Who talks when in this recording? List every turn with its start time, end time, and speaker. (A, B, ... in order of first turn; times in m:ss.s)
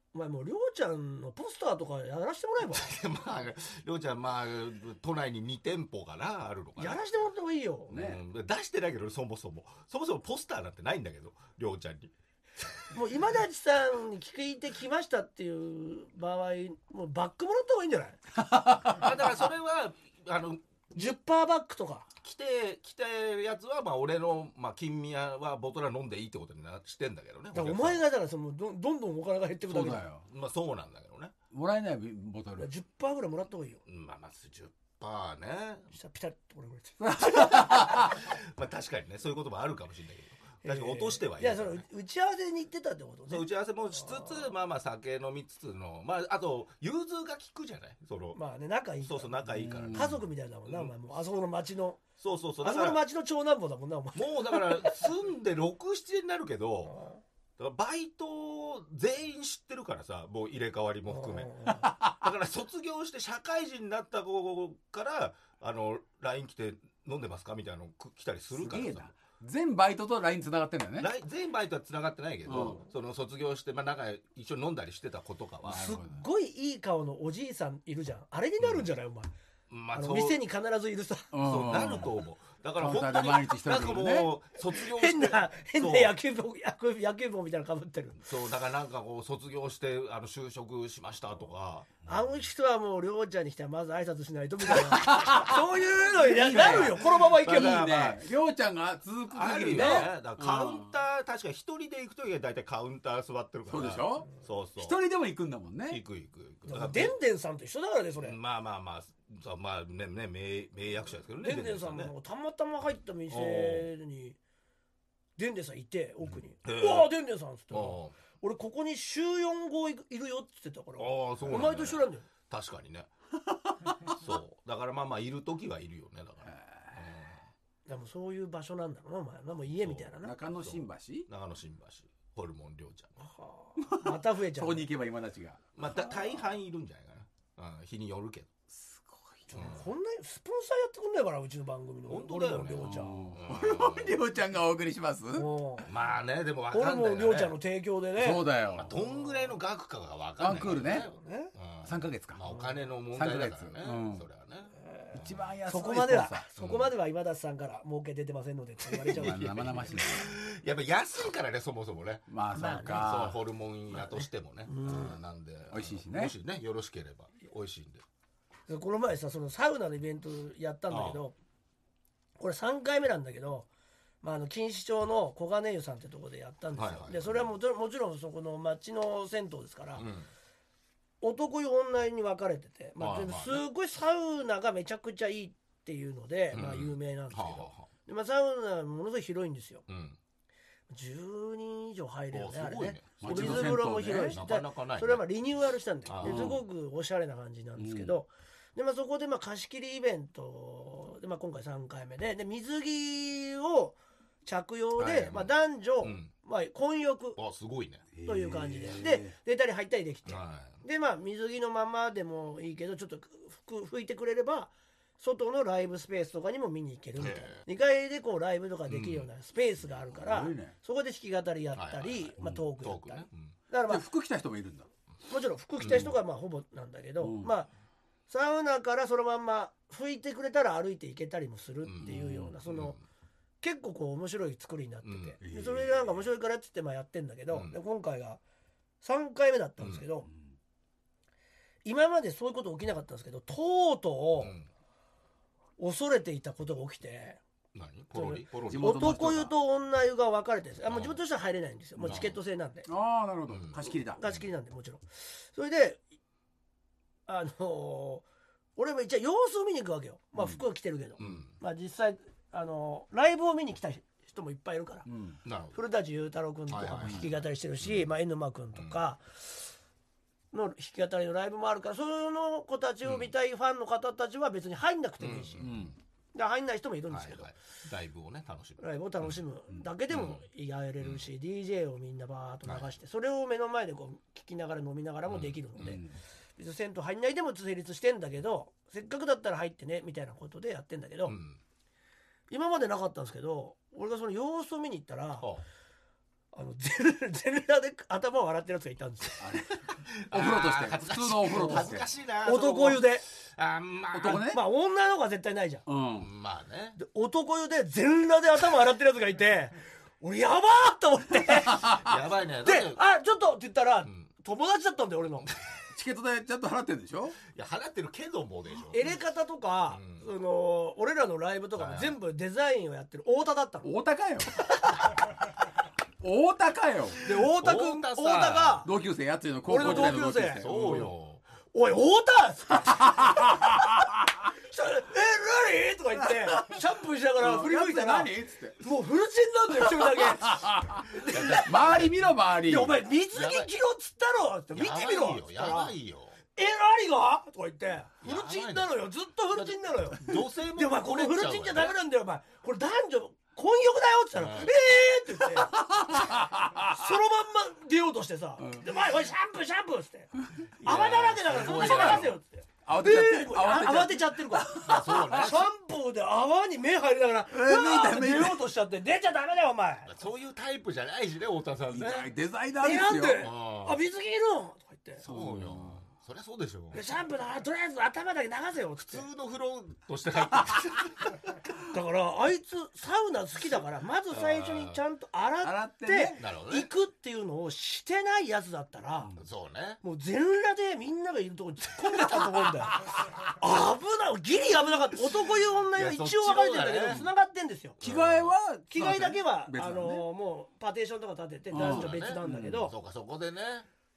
0:00.1-0:02.9 A
0:02.6-0:07.0 B
0:06.8-0:08.0 A
0:07.9-0:12.8 B
0:07.9-0:08.2 C
0:12.9-0:18.2 A
0:18.5-0:18.9 C
0:18.8-0:21.1 B
0:20.9-0:22.1 A
0:22.2-0:28.0 B
0:27.5-0:30.0 A
0:29.7-0:30.2 C
0:30.2-0:31.3 B
0:31.5-0:32.7 C
0:32.6-0:33.8 A
0:33.8-0:35.9 B
0:35.9-0:38.1 A
0:37.0-0:38.1 C
0:37.5-0:41.8 B
0:40.6-0:44.5 A
0:43.3-0:48.4 B
0:48.3-0:49.3 A
0:49.0-0:50.9 B
0:49.5-0:50.2 C
0:49.9-0:52.0 A
0:52.2-0:53.0 B
0:52.6-0:55.0 A
0:54.1-0:57.0 B
0:56.9-0:57.2 A
0:57.6-1:09.1 B
1:01.1-1:01.9 A
1:08.5-1:11.1 C
1:11.0-1:15.9 B
1:12.4-1:12.8 C
1:15.7-1:16.2 C
1:15.7-1:19.3 A
1:18.6-1:18.8 B
1:19.7-1:20.4 B
1:19.9-1:21.3 A
1:21.3-1:22.2 C
1:21.4-1:26.1 B
1:22.8-1:24.3 C
1:24.7-1:28.2 A
1:28.2-1:32.0 B
1:32.0-1:38.0 A
1:34.7-1:40.9 C
1:36.5-1:38.2 B
1:39.3-1:45.0 B
1:39.7-1:40.1 A
1:43.7-1:46.0 C
1:45.9-1:47.1 B
1:46.7-1:48.4 A
1:48.2-1:52.1 B
1:51.4-1:54.4 A
1:53.3-1:53.9 B
1:55.4-2:02.3 A
1:56.6-1:57.1 B
1:57.7-1:58.2 B
2:01.0-2:03.1 B
2:04.0-2:07.4 B
2:06.4-2:07.1 C
2:07.8-2:10.3 A
2:09.7-2:10.1 B
2:10.2-2:11.3 C
2:10.6-2:13.1 B
2:13.2-2:14.9 A
2:13.8-2:15.7 C
2:15.8-2:18.5 B
2:18.7-2:19.5 C
2:19.5-2:23.2 A
2:19.5-2:19.8 B
2:22.1-2:24.2 B
2:22.8-2:25.5 C
2:25.3-2:25.9 A
2:25.8-2:27.6 B
2:26.7-2:28.5 A
2:28.2-2:29.0 C
2:28.7-2:35.3 B
2:30.4-2:31.1 C
2:31.1-2:31.5 A
2:31.8-2:32.5 C
2:33.1-2:34.2 C
2:34.8-2:39.9 A
2:35.1-2:36.4 C
2:36.6-2:36.9 B
2:39.0-2:42.3 B
2:39.1-2:40.3 C
2:42.3-2:43.4 C
2:42.5-2:43.2 A
2:42.8-2:48.0 B
2:43.9-2:45.2 A
2:45.7-2:46.3 C
2:48.7-2:51.3 A
2:50.9-2:51.2 B
2:52.4-2:53.7 A
2:54.2-3:00.1 A
2:56.7-2:57.5 B
3:00.0-3:00.3 B
3:01.2-3:09.8 A
3:03.0-3:03.6 B
3:06.5-3:07.9 B
3:09.9-3:10.2 B
3:10.9-3:27.4 A
3:12.3-3:15.2 B
3:13.2-3:14.4 C
3:16.0-3:16.6 B
3:16.2-3:16.6 C
3:17.8-3:18.2 C
3:25.0-3:26.3 B
3:27.4-3:28.0 B
3:28.1-3:29.3 C
3:28.2-3:44.0 A
3:30.2-3:30.8 B
3:37.2-3:37.6 B
3:38.9-3:39.3 B
3:40.2-3:40.7 C
3:41.7-3:43.5 B
3:43.9-3:44.9 C
3:45.3-3:47.7 A
3:45.8-3:46.1 B
3:47.2-3:47.5 C
3:48.3-3:53.0 A
3:51.8-3:53.0 B
3:52.0-3:52.6 C
3:53.6-3:58.4 A
3:55.0-3:55.4 B
3:55.4-3:56.2 C
3:57.5-3:57.8 B
3:59.0-4:00.3 A
3:59.8-4:00.0 B
4:00.3-4:00.5 C
4:01.8-4:04.5 A
4:04.4-4:04.7 B
4:05.8-4:07.4 A
4:07.7-4:09.1 B
4:08.1-4:12.9 A
4:08.7-4:09.5 C
4:10.8-4:11.2 B
4:12.0-4:12.4 B
4:12.8-4:14.2 C
4:13.5-4:14.4 B
4:14.2-4:16.0 A
4:17.3-4:25.1 A
4:21.2-4:21.5 B
4:25.1-4:25.4 C
4:25.4-4:25.8 B
4:25.7-4:29.7 A
4:26.7-4:28.1 B
4:28.7-4:29.0 B
4:30.5-4:35.6 A
4:33.0-4:33.3 B
4:35.2-4:35.9 B
4:35.6-4:35.9 C
4:36.3-4:37.5 A
4:37.1-4:39.4 B
4:38.8-4:46.0 A
4:40.1-4:40.4 B
4:41.0-4:41.2 B
4:42.6-4:42.9 B
4:45.3-4:46.0 B
4:45.8-4:46.1 C
4:46.6-4:51.4 A
4:51.2-4:51.6 B
4:52.5-4:55.5 A
4:56.5-4:59.4 A
4:59.4-5:02.1 C
5:00.0-5:04.4 B
5:01.5-5:01.9 A
5:02.4-5:03.2 A
5:04.1-5:04.6 C
5:04.2-5:05.8 A
5:05.9-5:06.3 C
5:06.2-5:07.0 B
5:07.0-5:15.5 A
5:11.8-5:13.0 B
5:15.9-5:17.4 C
5:17.5-5:19.1 B
5:18.9-5:23.9 A
5:19.9-5:20.2 B
5:21.8-5:22.2 B
5:23.8-5:24.7 C
5:26.2-5:27.2 C
5:27.2-5:28.9 A
5:27.2-5:28.9 B
5:28.8-5:31.1 C
5:29.6-5:31.0 A
5:29.7-5:31.4 B
5:31.7-5:33.6 A
5:34.5-5:42.1 A
5:36.5-5:36.8 C
5:37.4-5:38.8 C
5:40.0-5:43.0 C
5:41.2-5:42.1 B
5:42.6-5:45.9 A
5:43.3-5:43.7 B
5:44.7-5:46.4 B
5:46.6-6:10.1 A
5:48.2-5:52.0 B
5:54.3-5:54.7 B
5:55.7-5:57.0 C
5:58.6-5:58.8 C
6:00.8-6:02.4 B
6:01.6-6:02.3 C
6:02.8-6:05.5 C
6:04.8-6:05.7 B
6:07.5-6:08.7 C
6:10.0-6:12.3 B
6:11.9-6:13.5 C
6:12.8-6:15.2 A
6:13.4-6:14.0 B
6:15.2-6:17.0 B
6:15.2-6:16.0 C
6:16.9-6:19.3 A
6:19.0-6:21.6 B
6:21.9-6:29.3 A
6:24.3-6:25.0 B
6:25.6-6:26.4 C
6:26.4-6:26.9 B
6:29.4-6:30.0 B
6:30.0-6:38.0 A
6:35.9-6:37.3 B
6:38.0-6:38.5 B
6:38.0-6:40.2 C
6:38.9-6:42.9 A
6:41.7-6:42.9 C
6:41.7-6:43.9 B